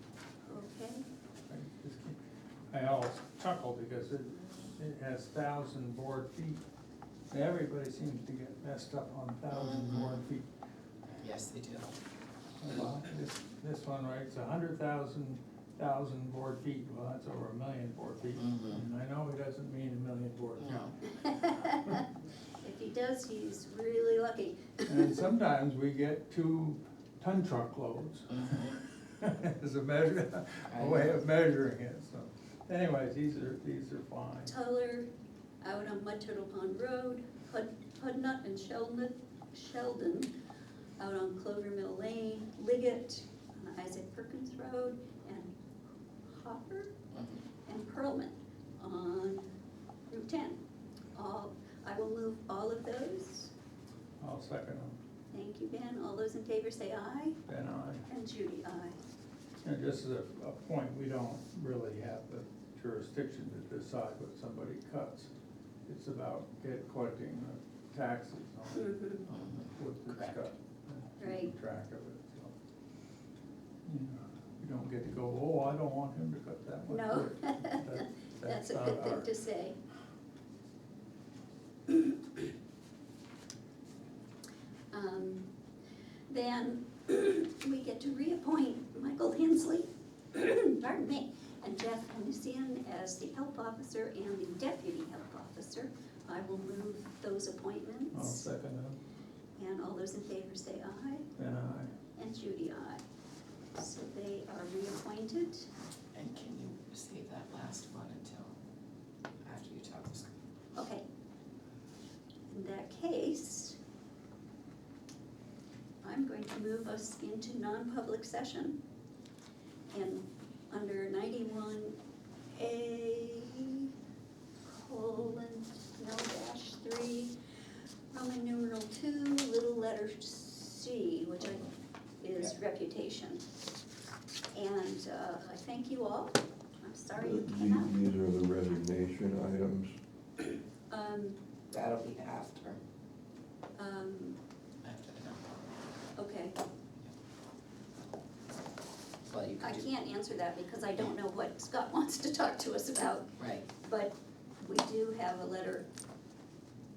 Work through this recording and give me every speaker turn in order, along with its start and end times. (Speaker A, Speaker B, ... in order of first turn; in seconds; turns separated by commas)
Speaker A: 0.5-1.1, Speaker B: 1.5-2.2, Speaker B: 2.7-6.6, Speaker B: 7.3-10.5, Speaker C: 9.5-10.2, Speaker C: 11.2-11.9, Speaker B: 12.6-22.0, Speaker C: 18.4-18.8, Speaker C: 20.6-20.9, Speaker A: 21.3-22.0, Speaker A: 22.6-25.1, Speaker B: 24.9-34.5, Speaker C: 28.3-28.8, Speaker C: 30.7-31.2, Speaker A: 34.5-35.1, Speaker A: 35.6-40.3, Speaker A: 41.0-45.5, Speaker A: 46.2-46.9, Speaker C: 47.1-47.4, Speaker A: 47.7-49.5, Speaker A: 50.1-50.6, Speaker A: 51.1-53.5, Speaker B: 54.2-55.0, Speaker A: 55.3-57.4, Speaker B: 57.5-58.1, Speaker A: 58.1-59.0, Speaker B: 59.6-65.3, Speaker B: 65.9-72.5, Speaker A: 68.8-69.3, Speaker C: 69.3-70.4, Speaker A: 71.2-71.5, Speaker B: 73.8-79.3, Speaker A: 76.9-79.8, Speaker A: 84.9-85.5, Speaker A: 86.3-98.5, Speaker B: 98.1-99.0, Speaker A: 99.6-101.3, Speaker B: 101.4-101.9, Speaker A: 102.2-103.0, Speaker A: 103.8-105.7, Speaker C: 106.1-108.5, Speaker C: 109.4-110.3, Speaker A: 110.8-111.0, Speaker A: 112.5-113.8, Speaker A: 116.0-118.8, Speaker A: 119.9-122.0, Speaker A: 122.5-123.9, Speaker A: 124.7-127.3, Speaker A: 128.1-131.7, Speaker C: 131.4-131.7, Speaker A: 132.2-133.4, Speaker A: 134.5-138.0, Speaker D: 137.2-140.0, Speaker A: 140.9-141.4, Speaker C: 141.7-142.8, Speaker A: 143.8-144.4, Speaker C: 144.8-145.7, Speaker A: 146.2-146.6, Speaker C: 149.3-149.9, Speaker A: 149.6-155.9, Speaker C: 153.4-153.7